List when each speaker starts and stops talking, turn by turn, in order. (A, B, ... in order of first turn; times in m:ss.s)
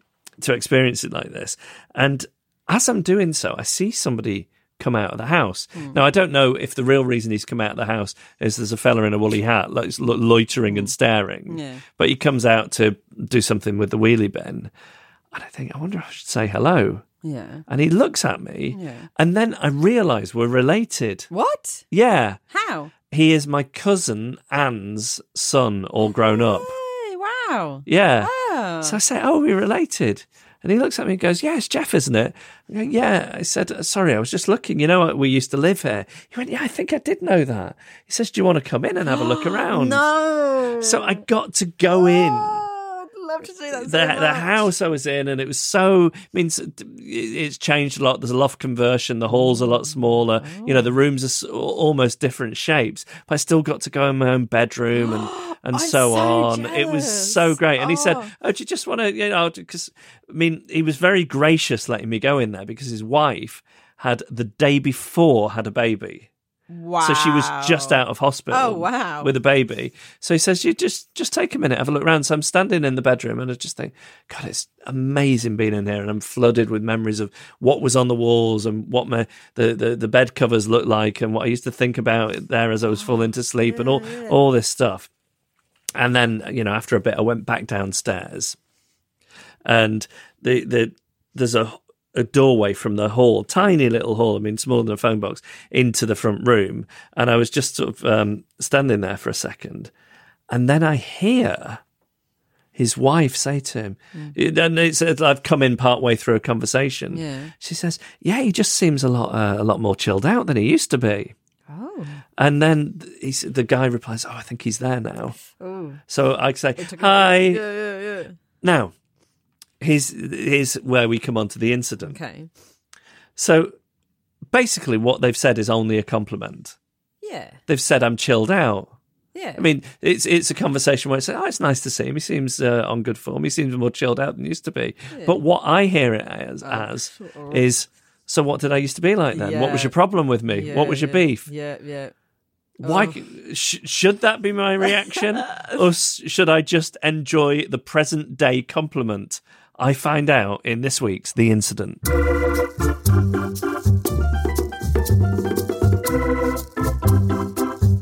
0:00.4-0:14.7 A
0:11.5-0:11.8 B
0:15.3-0:17.0 A
0:17.2-0:17.6 B
0:17.7-0:21.3 A
0:18.7-0:19.1 B
0:21.3-0:21.8 B
0:21.9-0:22.4 A
0:22.5-0:22.9 B
0:23.1-0:26.7 A
0:26.0-0:29.0 B
0:27.8-0:40.0 A
0:39.1-0:41.2 B
0:40.8-0:42.6 A
0:41.9-0:44.6 B
0:43.7-1:06.3 A
0:49.3-0:51.0 B
0:54.9-0:58.3 B
1:06.7-1:08.0 B
1:07.0-1:25.1 A
1:08.5-1:09.3 B
1:22.9-1:24.4 B
1:26.0-1:28.6 A
1:29.6-1:39.9 A
1:40.5-1:41.8 A
1:42.8-1:51.3 A
1:47.1-1:47.5 B
1:51.7-1:52.2 B
1:52.4-1:55.4 A
1:55.6-1:56.0 B
1:56.1-1:57.6 A
1:56.8-1:58.3 B
1:58.6-1:58.9 A
1:59.8-2:02.2 A
2:02.0-2:02.5 B
2:03.4-2:03.7 A
2:04.5-2:06.7 A
2:07.2-2:07.6 B
2:07.7-2:08.9 A
2:09.3-2:09.6 B
2:09.6-2:21.5 A
2:15.1-2:15.4 B
2:16.6-2:17.6 B
2:19.3-2:19.9 B
2:20.5-2:22.1 B
2:22.8-2:32.0 A
2:22.8-2:23.2 B
2:25.4-2:25.7 B